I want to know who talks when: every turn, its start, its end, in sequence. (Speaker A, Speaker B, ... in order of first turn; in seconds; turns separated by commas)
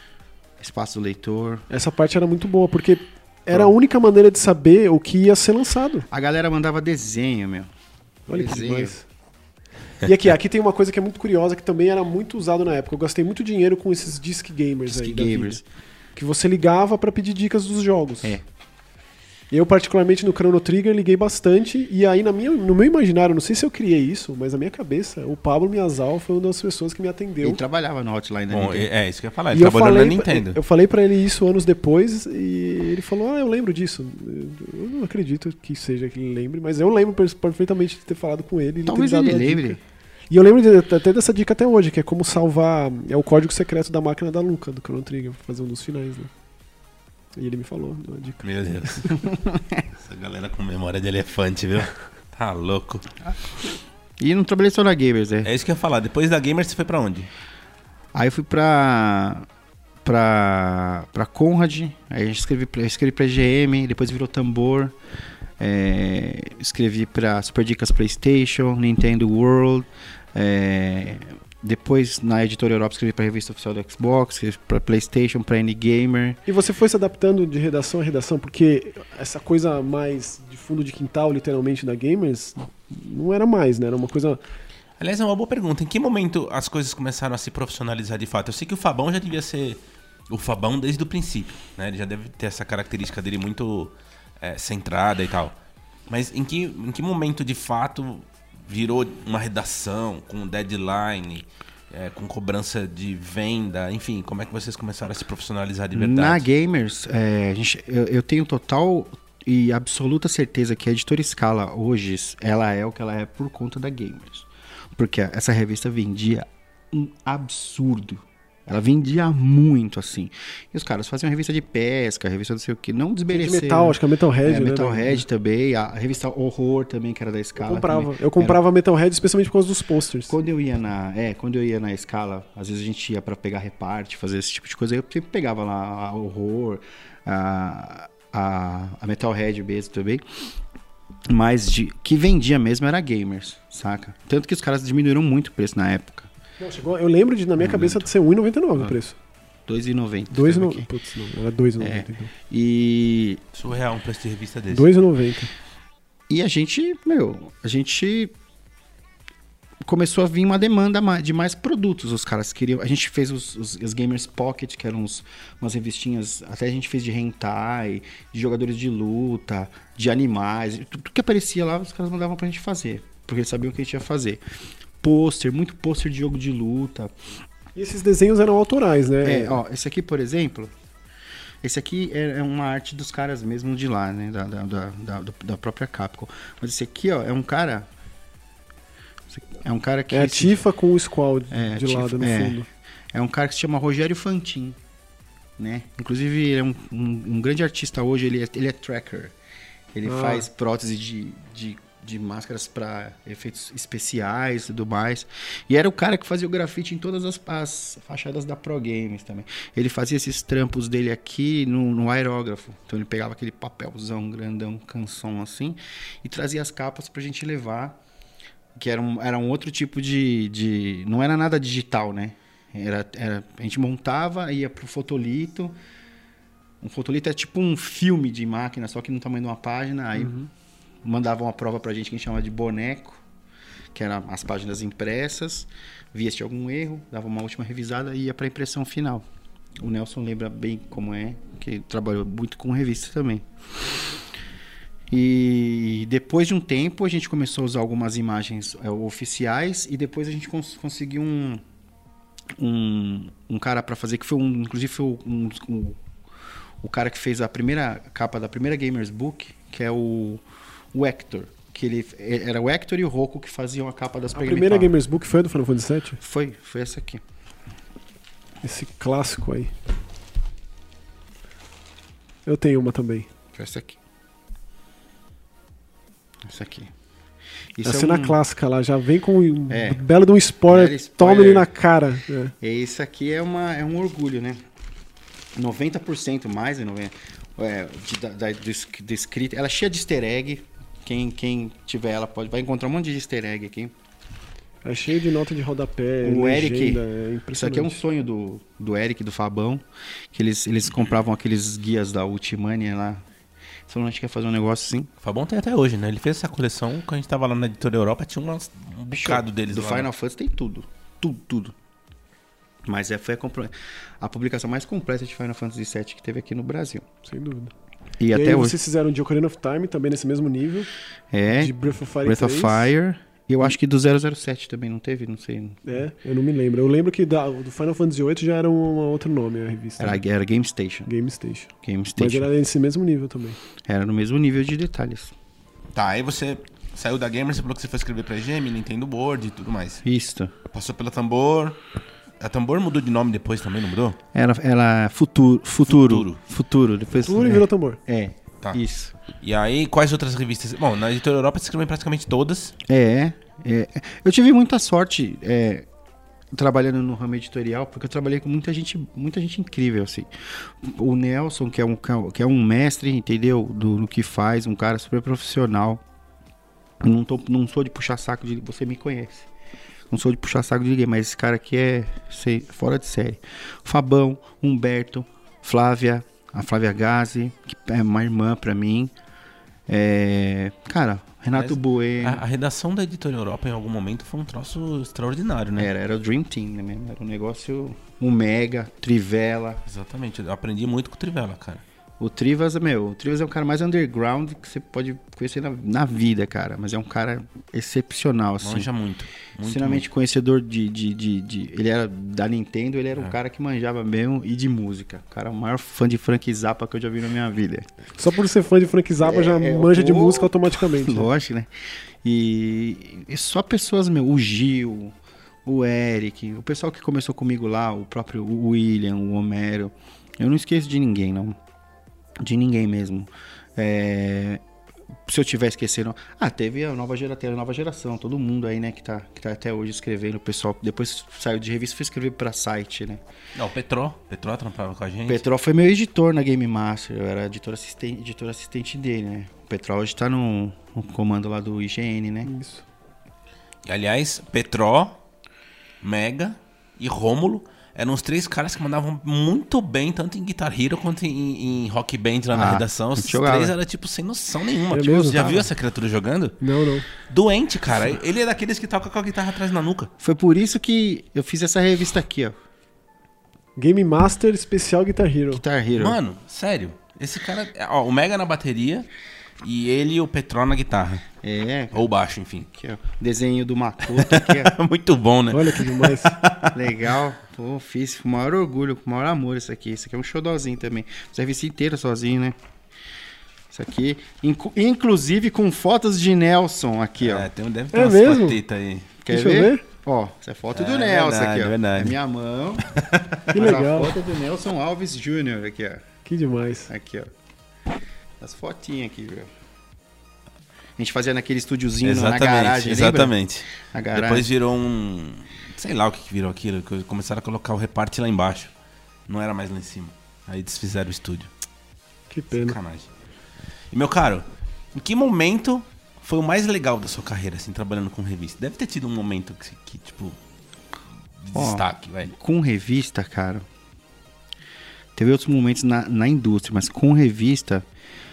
Speaker A: 0.6-1.6, Speaker B: 1.7-6.1, Speaker A: 6.1-7.7, Speaker B: 8.3-9.1, Speaker A: 8.3-8.9, Speaker B: 10.0-15.6, Speaker A: 14.9-15.6, Speaker B: 16.2-18.4, Speaker B: 19.5-27.6, Speaker A: 27.4-28.9, Speaker C: 28.5-30.6, Speaker B: 29.5-39.8, Speaker A: 38.9-39.8, Speaker B: 40.3-46.3, Speaker B: 47.4-49.1, Speaker C: 48.4-49.2, Speaker A: 49.2-49.9, Speaker C: 50.0-53.2, Speaker A: 54.2-55.5, Speaker C: 55.4-57.3, Speaker A: 58.1-59.5, Speaker A: 60.0-65.0, Speaker A: 65.6-76.4, Speaker B: 76.5-84.4, Speaker C: 85.0-95.6, Speaker C: 96.1-106.5, Speaker A: 105.9-128.6, Speaker B: 123.3-125.2, Speaker B: 127.6-130.3, Speaker A: 130.3-140.5, Speaker A: 141.3-146.3, Speaker B: 146.6-149.2, Speaker A: 147.6-148.1, Speaker A: 149.7-150.9, Speaker B: 150.3-152.3, Speaker A: 151.8-153.4, Speaker C: 153.5-154.9, Speaker B: 154.7-155.5, Speaker A: 156.3-158.3, Speaker A: 159.8-174.4, Speaker A: 175.0-177.1, Speaker B: 177.8-179.6, Speaker A: 179.2-180.7, Speaker A: 181.6-187.9, Speaker A: 189.3-190.6, Speaker B: 190.1-192.7, Speaker A: 191.5-192.6, Speaker A: 193.1-194.8, Speaker A: 195.6-199.3, Speaker A: 199.9-218.0, Speaker B: 200.1-200.5, Speaker A: 218.8-225.7, Speaker A: 226.8-230.4, Speaker B: 230.2-230.5, Speaker A: 231.0-233.2, Speaker A: 233.9-239.3, Speaker A: 239.8-243.5, Speaker A: 245.1-251.6, Speaker A: 252.6-256.0, Speaker A: 256.8-265.0, Speaker B: 264.3-266.2, Speaker A: 266.2-267.2, Speaker B: 268.6-269.7, Speaker B: 272.5-273.3, Speaker A: 273.5-274.0, Speaker A: 276.4-276.9, Speaker A: 277.8-278.4, Speaker B: 277.8-282.5, Speaker A: 279.7-280.0, Speaker A: 280.7-281.7, Speaker A: 282.6-284.6, Speaker A: 285.6-293.9, Speaker B: 294.8-298.0, Speaker A: 296.2-303.2, Speaker A: 303.9-305.1, Speaker C: 305.2-310.1, Speaker A: 309.1-311.7, Speaker A: 312.9-317.1, Speaker B: 317.2-317.7, Speaker A: 318.2-318.8, Speaker B: 318.3-320.9, Speaker A: 321.3-325.8, Speaker B: 321.6-322.9, Speaker B: 325.9-330.2, Speaker A: 330.0-331.1, Speaker B: 331.1-333.6, Speaker A: 331.8-332.5, Speaker A: 333.8-335.3, Speaker C: 335.9-340.0, Speaker A: 340.0-340.5, Speaker C: 340.7-341.8, Speaker C: 342.4-344.2, Speaker A: 344.3-349.1, Speaker C: 345.9-346.4, Speaker B: 347.1-348.0, Speaker C: 349.4-352.8, Speaker A: 352.9-355.9, Speaker A: 356.5-366.0, Speaker A: 367.0-369.5, Speaker A: 370.1-379.1, Speaker A: 379.9-382.4, Speaker C: 381.5-385.9, Speaker A: 385.8-389.8, Speaker C: 389.9-391.8, Speaker A: 392.2-398.9, Speaker C: 398.6-400.0, Speaker A: 399.6-407.9, Speaker B: 408.2-411.3, Speaker A: 409.2-411.7, Speaker A: 412.2-421.6, Speaker A: 422.4-424.6, Speaker A: 425.3-433.2, Speaker C: 433.6-435.4, Speaker A: 435.3-442.5, Speaker B: 442.4-442.9, Speaker C: 443.9-445.2, Speaker C: 446.0-456.6, Speaker A: 452.5-453.8, Speaker B: 454.9-455.4, Speaker A: 455.0-455.7, Speaker B: 456.6-457.1, Speaker C: 457.1-460.1, Speaker A: 460.2-462.5, Speaker B: 463.8-465.6, Speaker A: 465.5-466.2, Speaker C: 466.0-469.1, Speaker C: 469.6-471.3, Speaker A: 471.4-472.1, Speaker C: 471.9-472.7, Speaker A: 472.7-474.8, Speaker C: 474.1-476.8, Speaker B: 475.5-476.4, Speaker A: 476.7-482.6, Speaker A: 483.7-487.5, Speaker C: 487.2-489.1, Speaker B: 487.9-488.6, Speaker A: 489.2-492.9, Speaker B: 489.3-489.8, Speaker C: 490.7-492.2, Speaker C: 492.9-493.5, Speaker A: 493.5-496.0, Speaker B: 493.5-494.1, Speaker B: 496.2-496.9, Speaker A: 496.9-497.3, Speaker A: 498.4-499.5, Speaker A: 501.0-504.5, Speaker C: 502.0-508.7, Speaker C: 509.3-511.5, Speaker B: 512.3-512.8, Speaker C: 512.5-513.1, Speaker C: 513.9-520.4, Speaker C: 521.4-522.3, Speaker A: 521.5-523.7, Speaker A: 525.2-527.9